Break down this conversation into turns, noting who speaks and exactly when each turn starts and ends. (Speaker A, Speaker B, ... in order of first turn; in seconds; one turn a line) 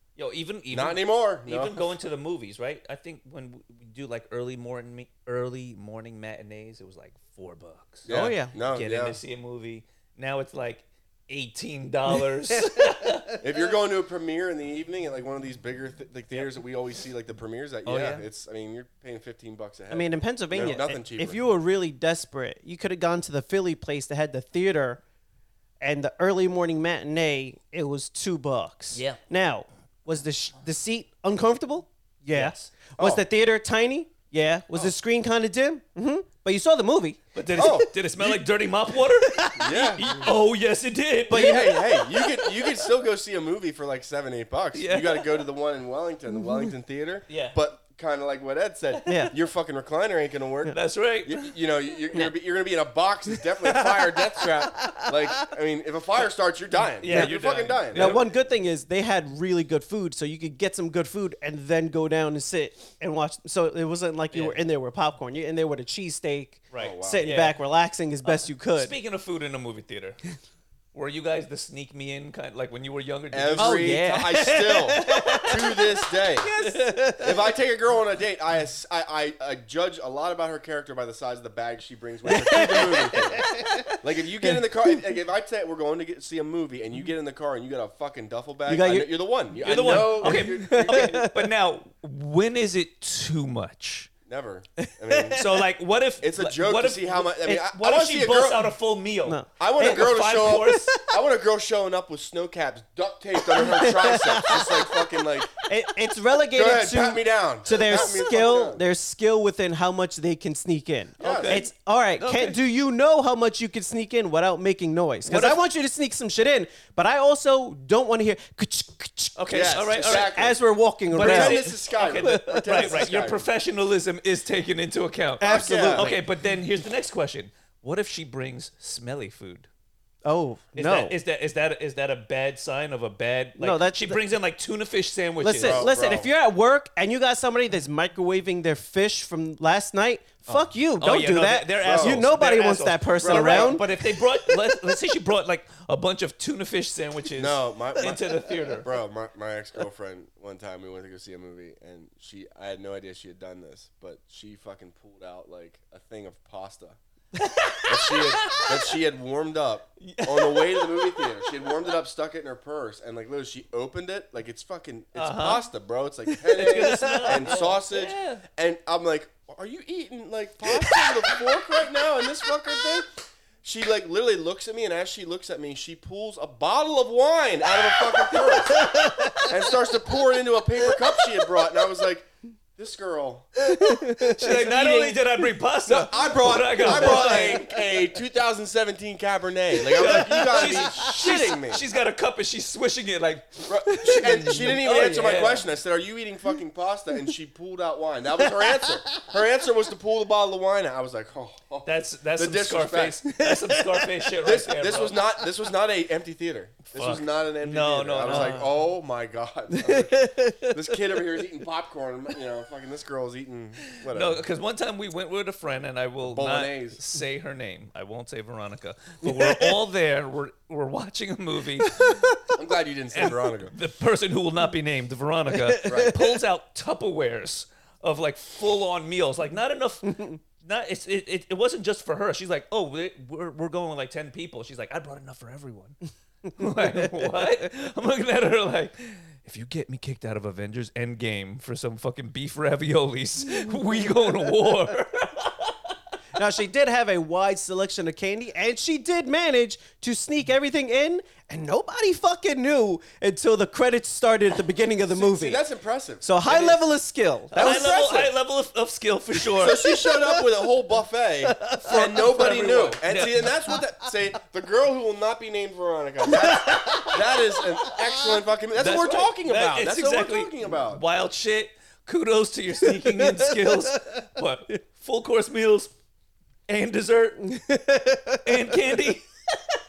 Speaker A: 0.2-13.4
Speaker B: 0.7-1.9
Speaker B: 8.1-9.2
Speaker C: 8.1-8.5
Speaker C: 12.6-13.1
Speaker B: 13.4-21.4
Speaker A: 17.9-18.2
Speaker C: 19.9-25.0
Speaker C: 25.8-37.8
Speaker A: 28.9-29.2
Speaker A: 32.3-32.7
Speaker B: 33.0-33.2
Speaker A: 37.4-42.8
Speaker B: 37.6-38.3
Speaker C: 39.3-40.3
Speaker B: 39.5-40.1
Speaker B: 41.3-58.2
Speaker A: 44.7-45.4
Speaker A: 47.3-47.6
Speaker A: 49.0-49.2
Speaker C: 49.1-49.3
Speaker A: 50.7-51.5
Speaker C: 53.6-55.5
Speaker A: 57.0-58.2
Speaker C: 57.1-57.4
Speaker C: 57.9-68.9
Speaker A: 66.7-67.6
Speaker B: 66.8-67.3
Speaker A: 68.2-70.2
Speaker A: 70.9-74.0
Speaker B: 73.3-76.5
Speaker C: 73.6-77.4
Speaker A: 76.5-76.8
Speaker B: 77.2-91.2
Speaker C: 82.3-84.7
Speaker C: 88.7-89.1
Speaker A: 89.6-94.1
Speaker C: 90.2-91.4
Speaker B: 94.3-95.4
Speaker C: 94.8-95.5
Speaker A: 95.3-101.0
Speaker B: 96.2-98.7
Speaker C: 99.2-101.2
Speaker B: 99.6-105.5
Speaker C: 103.4-121.6
Speaker B: 106.5-108.8
Speaker A: 111.2-112.6
Speaker B: 111.2-111.6
Speaker A: 115.3-115.6
Speaker A: 119.4-120.3
Speaker B: 119.5-120.6
Speaker A: 121.1-129.7
Speaker B: 121.1-123.5
Speaker C: 122.2-123.1
Speaker C: 125.4-126.2
Speaker B: 125.4-126.1
Speaker C: 130.2-131.2
Speaker A: 130.8-135.9
Speaker C: 133.6-134.2
Speaker C: 135.4-144.9
Speaker B: 135.6-136.3
Speaker A: 140.5-148.9
Speaker B: 141.8-142.3
Speaker B: 143.2-143.9
Speaker B: 147.4-157.0
Speaker A: 157.4-158.7
Speaker B: 157.9-183.7
Speaker A: 160.0-161.6
Speaker A: 165.2-165.7
Speaker C: 166.4-167.7
Speaker A: 166.5-168.4
Speaker C: 178.4-179.6
Speaker C: 183.6-185.2
Speaker A: 183.8-187.7
Speaker B: 185.9-191.8
Speaker C: 186.8-187.7
Speaker A: 189.8-195.7
Speaker C: 190.0-191.6
Speaker B: 193.7-203.3
Speaker C: 194.0-194.6
Speaker C: 198.6-199.3
Speaker A: 201.8-205.2
Speaker C: 203.4-204.2
Speaker B: 204.4-214.4
Speaker A: 206.9-208.7
Speaker C: 208.3-208.7
Speaker C: 209.7-211.4
Speaker A: 214.0-222.5
Speaker B: 216.2-217.0
Speaker C: 219.2-219.8
Speaker C: 221.9-222.3
Speaker B: 222.5-223.7
Speaker A: 223.1-236.0
Speaker C: 225.5-226.2
Speaker B: 225.8-226.2
Speaker C: 230.1-230.4
Speaker A: 236.6-246.0
Speaker C: 236.6-237.1
Speaker C: 246.4-255.6
Speaker B: 255.1-256.8
Speaker C: 256.2-258.3
Speaker A: 257.5-259.8
Speaker B: 257.6-258.0
Speaker B: 259.5-271.0
Speaker C: 259.9-260.5
Speaker C: 261.5-262.2
Speaker A: 261.9-263.5
Speaker C: 266.3-268.4
Speaker A: 268.8-275.9
Speaker C: 273.1-274.0
Speaker A: 276.7-279.3
Speaker C: 277.5-278.8